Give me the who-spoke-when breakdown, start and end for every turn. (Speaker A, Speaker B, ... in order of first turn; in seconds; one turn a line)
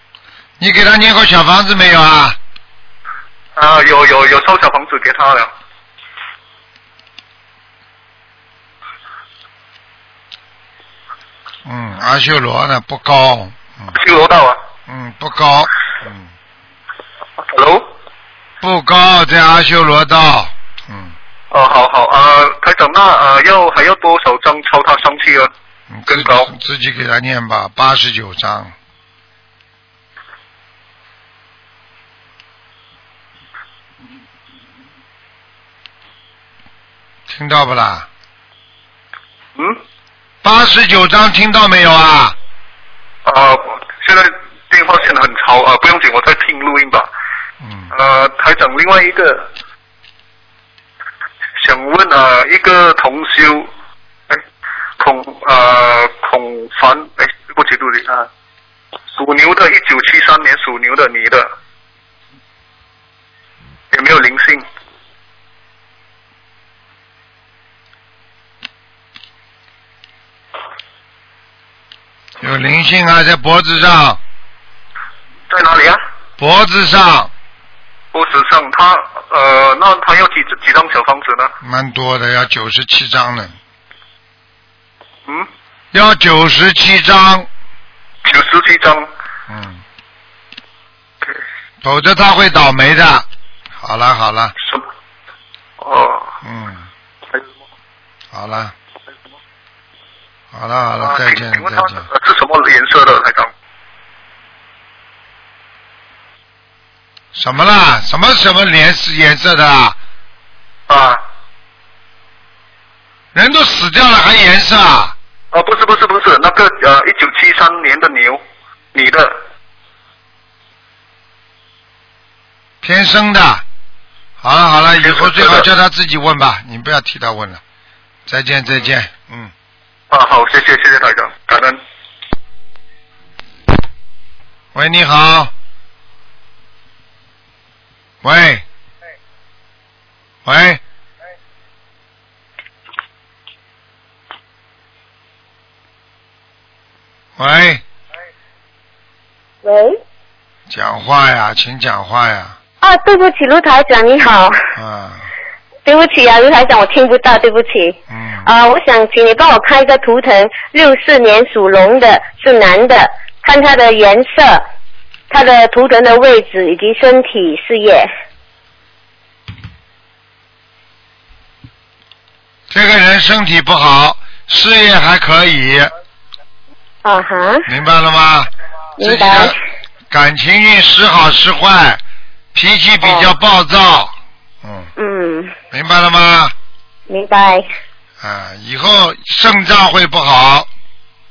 Speaker A: 0.6-2.4
Speaker B: 3.5-5.5
Speaker A: 11.6-14.0
Speaker B: 13.9-14.6
Speaker A: 14.9-16.3
Speaker B: 17.5-17.9
Speaker A: 18.6-21.1
Speaker B: 21.5-25.5
Speaker A: 25.9-28.7
Speaker B: 26.1-26.5
Speaker A: 37.3-38.1
Speaker B: 39.5-39.8
Speaker A: 40.4-42.4
Speaker B: 43.2-47.1
Speaker A: 47.6-47.9
Speaker B: 47.9-49.5
Speaker B: 51.6-53.7
Speaker B: 55.0-58.2
Speaker B: 59.1-61.5
Speaker B: 63.9-64.6
Speaker A: 72.4-74.2
Speaker B: 75.5-76.0
Speaker A: 76.4-77.3
Speaker B: 78.1-81.5
Speaker A: 81.6-83.5
Speaker A: 85.9-87.5
Speaker B: 88.2-89.1
Speaker A: 89.5-89.8
Speaker A: 91.8-93.3
Speaker A: 93.8-94.5
Speaker B: 95.8-96.3
Speaker A: 96.4-96.8
Speaker A: 98.3-98.7
Speaker A: 100.5-102.0
Speaker B: 101.0-103.5
Speaker A: 107.3-110.0
Speaker B: 110.9-111.2
Speaker A: 113.3-115.1
Speaker B: 115.5-118.4
Speaker B: 118.9-119.3
Speaker A: 122.8-123.6
Speaker A: 124.4-127.6
Speaker B: 125.0-125.7
Speaker A: 128.3-129.5
Speaker B: 130.1-131.8
Speaker A: 134.7-135.5
Speaker A: 138.2-138.6
Speaker A: 140.4-140.8
Speaker A: 147.4-147.8
Speaker C: 149.6-150.0
Speaker A: 150.7-152.6
Speaker C: 152.8-154.6
Speaker A: 154.8-155.3
Speaker C: 155.8-164.6
Speaker A: 158.1-158.4
Speaker C: 165.3-168.1
Speaker A: 172.7-175.9
Speaker C: 177.0-177.7
Speaker A: 177.7-179.6
Speaker C: 179.0-179.6
Speaker A: 180.1-182.0
Speaker A: 182.5-184.9
Speaker C: 183.0-183.3
Speaker C: 185.0-185.5
Speaker A: 185.7-186.5
Speaker C: 187.1-187.7
Speaker A: 188.2-190.7